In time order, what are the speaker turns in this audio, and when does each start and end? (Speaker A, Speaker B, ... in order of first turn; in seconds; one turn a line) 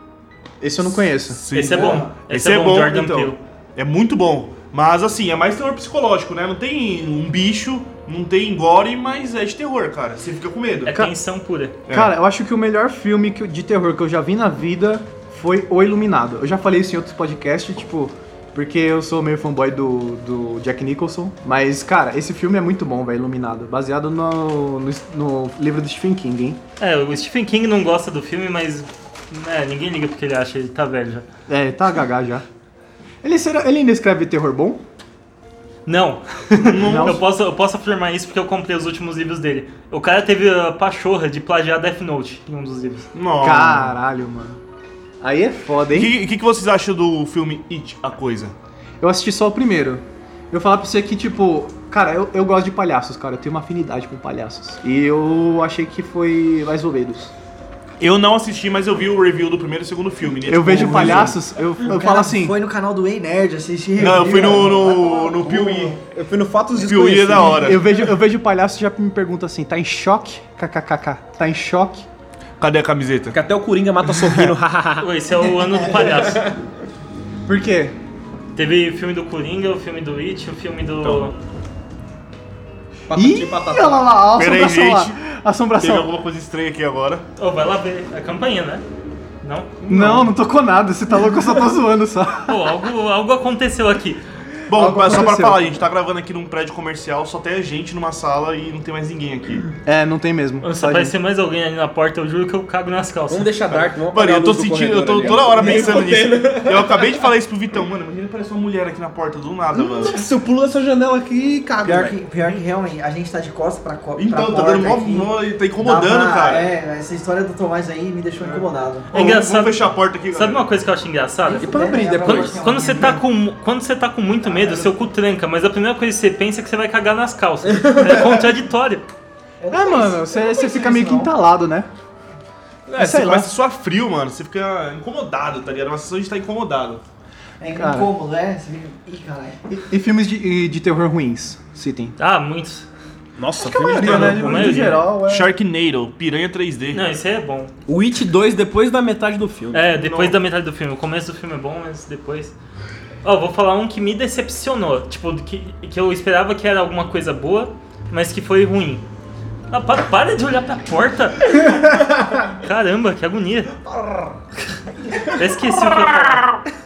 Speaker A: 0.6-1.4
Speaker B: 1.3-10.9
Speaker C: 1.5-3.4
Speaker D: 1.6-2.1
Speaker C: 10.9-11.8
Speaker B: 11.9-12.1
Speaker A: 11.9-26.6
Speaker C: 26.8-31.3
Speaker A: 31.5-32.5
Speaker A: 33.2-34.8
Speaker C: 35.9-43.1
Speaker B: 36.6-37.2
Speaker A: 36.8-37.2
Speaker B: 43.1-44.0
Speaker A: 43.4-44.6
Speaker A: 45.2-46.2
Speaker B: 45.9-48.5
Speaker A: 49.0-57.3
Speaker B: 58.0-61.4
Speaker A: 60.5-62.6
Speaker D: 60.7-66.0
Speaker B: 64.0-66.0
Speaker E: 66.0-67.8
Speaker B: 66.8-67.8
Speaker A: 67.5-72.1
Speaker B: 72.6-73.4
Speaker E: 73.3-75.1
Speaker B: 74.2-74.5
Speaker C: 75.0-76.5
Speaker E: 75.8-76.6
Speaker A: 77.5-78.0
Speaker C: 78.5-81.3
Speaker E: 83.1-84.1
Speaker A: 83.1-86.1
Speaker B: 84.3-85.2
Speaker B: 85.8-87.2
Speaker C: 87.4-88.8
Speaker C: 89.4-89.8
Speaker B: 89.8-90.3
Speaker A: 89.9-92.5
Speaker C: 92.5-94.2
Speaker B: 94.7-99.7
Speaker A: 94.7-95.8
Speaker A: 99.8-101.2
Speaker C: 100.6-103.5
Speaker E: 103.3-107.2
Speaker B: 103.7-110.2
Speaker E: 109.8-112.2
Speaker D: 111.8-119.1
Speaker B: 114.2-116.7
Speaker B: 118.4-120.7
Speaker C: 119.1-129.1
Speaker D: 121.5-123.2
Speaker E: 121.6-122.7
Speaker D: 124.5-124.9
Speaker E: 127.7-128.3
Speaker D: 129.6-131.3
Speaker A: 129.7-131.9
Speaker B: 132.9-137.0
Speaker A: 133.0-133.6
Speaker D: 137.6-139.8
Speaker A: 137.8-138.1
Speaker A: 139.8-142.2
Speaker C: 142.2-142.9
Speaker E: 143.4-144.8
Speaker A: 143.7-145.5
Speaker B: 143.9-147.0
Speaker C: 144.0-145.0
Speaker C: 146.9-147.7
Speaker E: 147.9-150.0
Speaker C: 149.7-152.5
Speaker B: 150.0-150.3
Speaker C: 153.2-159.1
Speaker C: 159.7-163.7
Speaker C: 165.3-166.6